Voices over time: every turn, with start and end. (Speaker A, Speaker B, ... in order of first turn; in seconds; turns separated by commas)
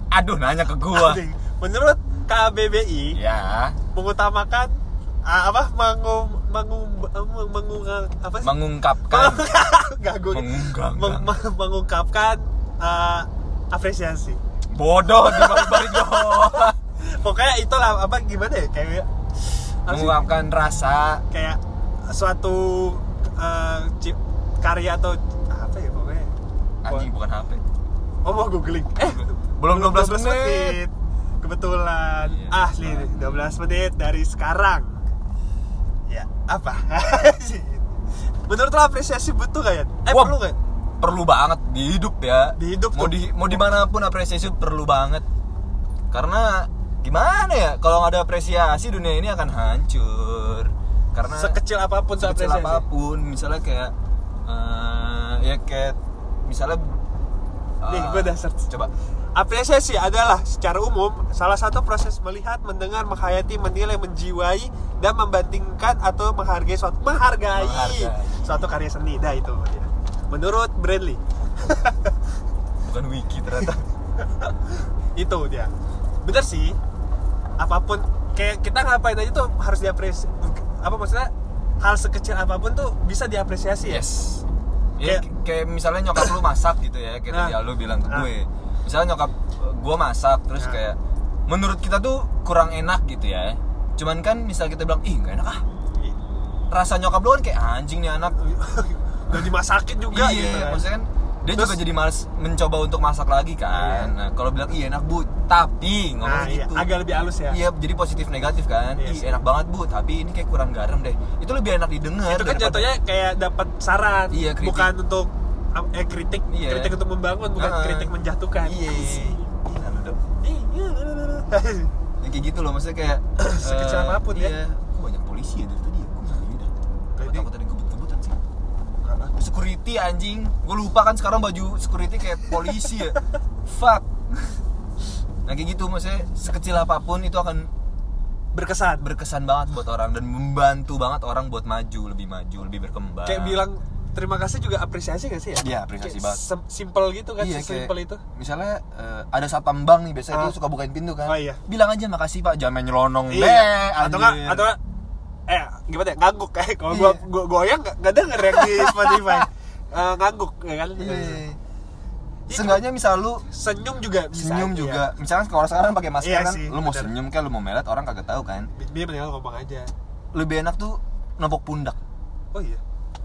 Speaker A: 0.1-1.2, Speaker B: 0.9-3.2, Speaker A: 3.1-3.8, Speaker B: 3.9-8.6, Speaker A: 8.4-9.5, Speaker B: 9.1-14.4, Speaker A: 10.3-11.4, Speaker A: 14.7-16.8, Speaker B: 15.2-19.1, Speaker B: 19.9-20.3, Speaker A: 19.9-21.2, Speaker B: 21.3-26.3, Speaker A: 26.8-27.6, Speaker B: 28.2-35.0, Speaker A: 29.0-30.8, Speaker A: 32.2-33.4, Speaker B: 36.1-40.6, Speaker A: 40.1-40.4, Speaker A: 41.0-45.2, Speaker B: 42.6-43.6, Speaker A: 46.1-51.6, Speaker B: 51.3-52.9, Speaker A: 52.2-53.9, Speaker A: 54.5-57.0, Speaker A: 57.8-58.9, Speaker B: 57.9-58.7, Speaker B: 59.4-72.2, Speaker A: 67.5-68.7, Speaker A: 72.8-73.8, Speaker B: 74.2-76.8, Speaker B: 77.6-84.0, Speaker A: 83.9-84.5, Speaker A: 85.0-95.6, Speaker B: 87.3-87.6, Speaker A: 96.7-98.4, Speaker B: 98.4-100.8, Speaker A: 100.1-106.9, Speaker B: 101.5-101.8, Speaker B: 103.7-104.1, Speaker B: 106.2-107.6, Speaker A: 107.5-112.9, Speaker B: 109.0-109.4, Speaker B: 112.3-119.7, Speaker A: 114.3-114.9, Speaker A: 116.5-116.9, Speaker A: 117.5-118.1, Speaker A: 118.6-120.2, Speaker B: 120.4-121.9, Speaker A: 122.2-128.4, Speaker B: 123.4-124.6, Speaker B: 127.2-127.5, Speaker B: 129.0-129.3, Speaker A: 129.4-134.6, Speaker A: 135.5-137.7, Speaker B: 138.5-139.1, Speaker A: 139.0-143.6, Speaker B: 143.2-148.2, Speaker A: 145.6-146.4, Speaker A: 147.4-154.7, Speaker B: 151.2-151.6, Speaker B: 153.3-154.8, Speaker B: 155.5-161.4, Speaker A: 156.9-157.2, Speaker A: 158.6-159.3, Speaker A: 161.0-161.6, Speaker B: 162.5-162.8, Speaker A: 162.5-163.5, Speaker B: 163.5-165.1, Speaker A: 164.3-168.7, Speaker B: 166.2-167.1, Speaker B: 168.7-169.9, Speaker A: 170.3-172.0, Speaker B: 172.5-172.8